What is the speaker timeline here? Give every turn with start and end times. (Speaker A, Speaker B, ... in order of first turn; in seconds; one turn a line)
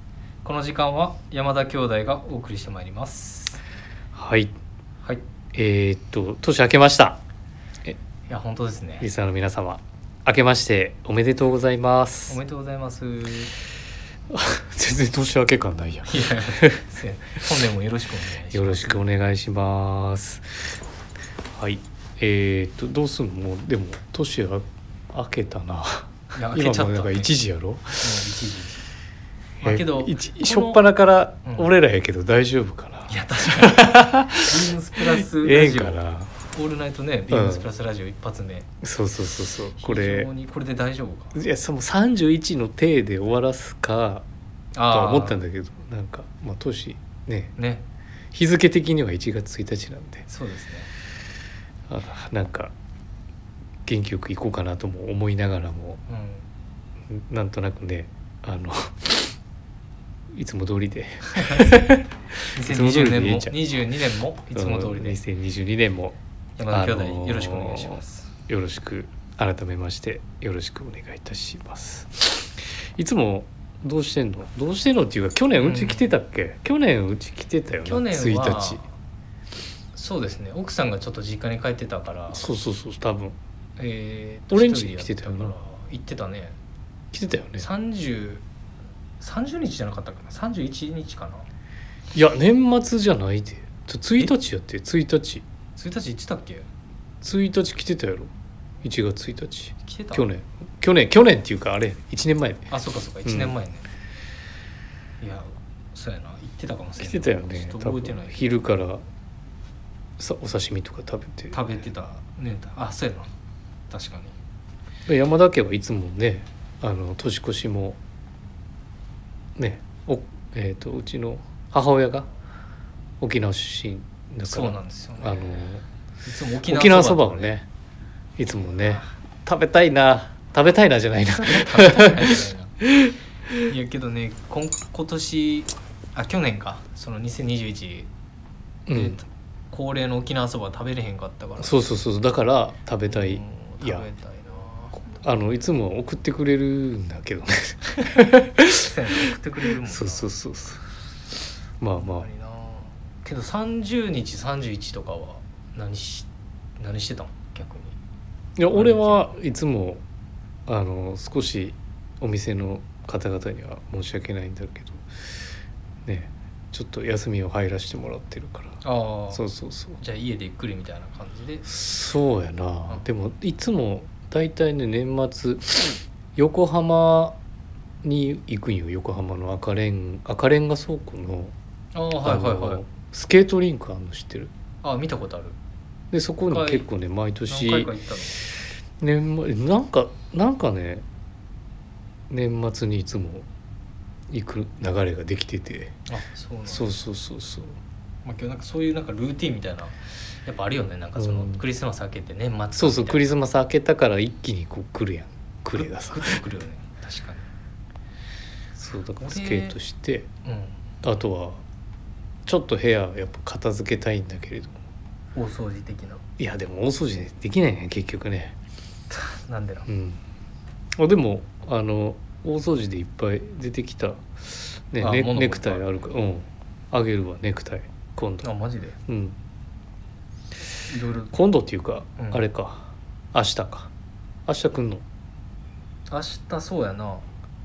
Speaker A: 0.4-3.6
Speaker B: 4.1-4.5
Speaker B: 5.5-7.2
Speaker A: 8.3-9.1
Speaker B: 9.0-12.4
Speaker A: 12.3-13.5
Speaker B: 14.3-16.8
Speaker A: 16.1-19.1
Speaker B: 18.5-20.8
Speaker B: 21.6-28.3
Speaker A: 26.3-27.4
Speaker A: 28.0-28.8
Speaker A: 29.6-30.8
Speaker B: 29.6-36.3
Speaker A: 31.4-31.7
Speaker A: 33.1-36.0
Speaker A: 36.5-38.7
Speaker B: 37.3-37.7
Speaker B: 38.8-40.3
Speaker A: 39.8-41.4
Speaker B: 41.3-44.3
Speaker A: 44.8-45.4
Speaker B: 44.9-47.5
Speaker A: 47.6-47.8
Speaker B: 48.3-50.3
Speaker A: 50.3-50.9
Speaker B: 51.9-52.7
Speaker B: 53.9-56.0
Speaker A: 56.1-56.5
Speaker B: 57.1-59.4
Speaker B: 60.3-63.5
Speaker A: 61.3-61.8
Speaker A: 62.5-65.2
Speaker B: 64.5-66.2
Speaker A: 66.6-68.3
Speaker B: 66.7-78.8
Speaker A: 75.6-76.1
Speaker A: 77.8-78.8
Speaker A: 79.9-82.4
Speaker B: 82.3-83.4
Speaker A: 83.8-86.6
Speaker B: 84.5-85.5
Speaker B: 87.1-87.7
Speaker A: 87.6-88.4
Speaker A: 89.2-91.5
Speaker B: 92.1-95.4
Speaker A: 95.8-96.7
Speaker B: 97.2-98.3
Speaker B: 98.8-102.7
Speaker A: 99.8-100.3
Speaker A: 102.7-103.8
Speaker B: 103.2-103.5
Speaker A: 105.2-108.5
Speaker B: 107.0-109.0
Speaker B: 110.2-111.6
Speaker A: 111.5-113.3
Speaker A: 113.9-114.4
Speaker B: 115.1-118.0
Speaker B: 119.5-122.3
Speaker B: 123.2-125.8
Speaker A: 124.5-125.7
Speaker A: 126.2-127.5
Speaker B: 126.6-127.7
Speaker B: 128.4-133.7
Speaker A: 128.8-129.1
Speaker A: 131.4-132.7
Speaker A: 133.7-138.1
Speaker B: 138.9-139.2
Speaker A: 138.9-141.8
Speaker B: 141.6-144.1
Speaker A: 143.1-145.2
Speaker B: 145.2-148.9
Speaker A: 148.7-150.3
Speaker B: 149.8-150.8
Speaker B: 151.8-152.3
Speaker A: 152.0-156.3
Speaker A: 156.8-158.0
Speaker B: 158.6-160.0
Speaker A: 158.7-159.3
Speaker B: 160.7-165.1
Speaker B: 166.1-170.0
Speaker A: 168.8-169.4
Speaker A: 170.0-171.7
Speaker B: 171.7-177.4
Speaker B: 178.0-181.5
Speaker A: 181.9-182.8
Speaker B: 182.2-184.5
Speaker A: 184.8-185.6
Speaker B: 186.1-187.9
Speaker A: 186.5-186.9
Speaker A: 187.5-188.4
Speaker B: 189.0-191.1
Speaker B: 192.3-193.5
Speaker B: 194.3-195.9
Speaker A: 196.1-196.9
Speaker B: 196.7-197.8
Speaker A: 198.2-199.9
Speaker A: 200.5-203.3
Speaker B: 201.2-201.6
Speaker B: 202.8-206.4
Speaker A: 205.8-207.5
Speaker B: 208.8-210.3
Speaker A: 209.2-209.8
Speaker A: 210.4-210.8
Speaker B: 211.0-211.6
Speaker B: 212.5-214.8
Speaker A: 215.3-216.2
Speaker B: 216.4-218.6
Speaker A: 219.1-219.9
Speaker B: 219.9-220.2
Speaker B: 221.0-228.5
Speaker A: 225.0-226.1
Speaker A: 228.4-229.0
Speaker B: 229.1-229.4
Speaker A: 230.9-231.3
Speaker B: 231.3-233.9
Speaker A: 232.2-232.4
Speaker B: 234.5-235.0
Speaker A: 236.1-237.2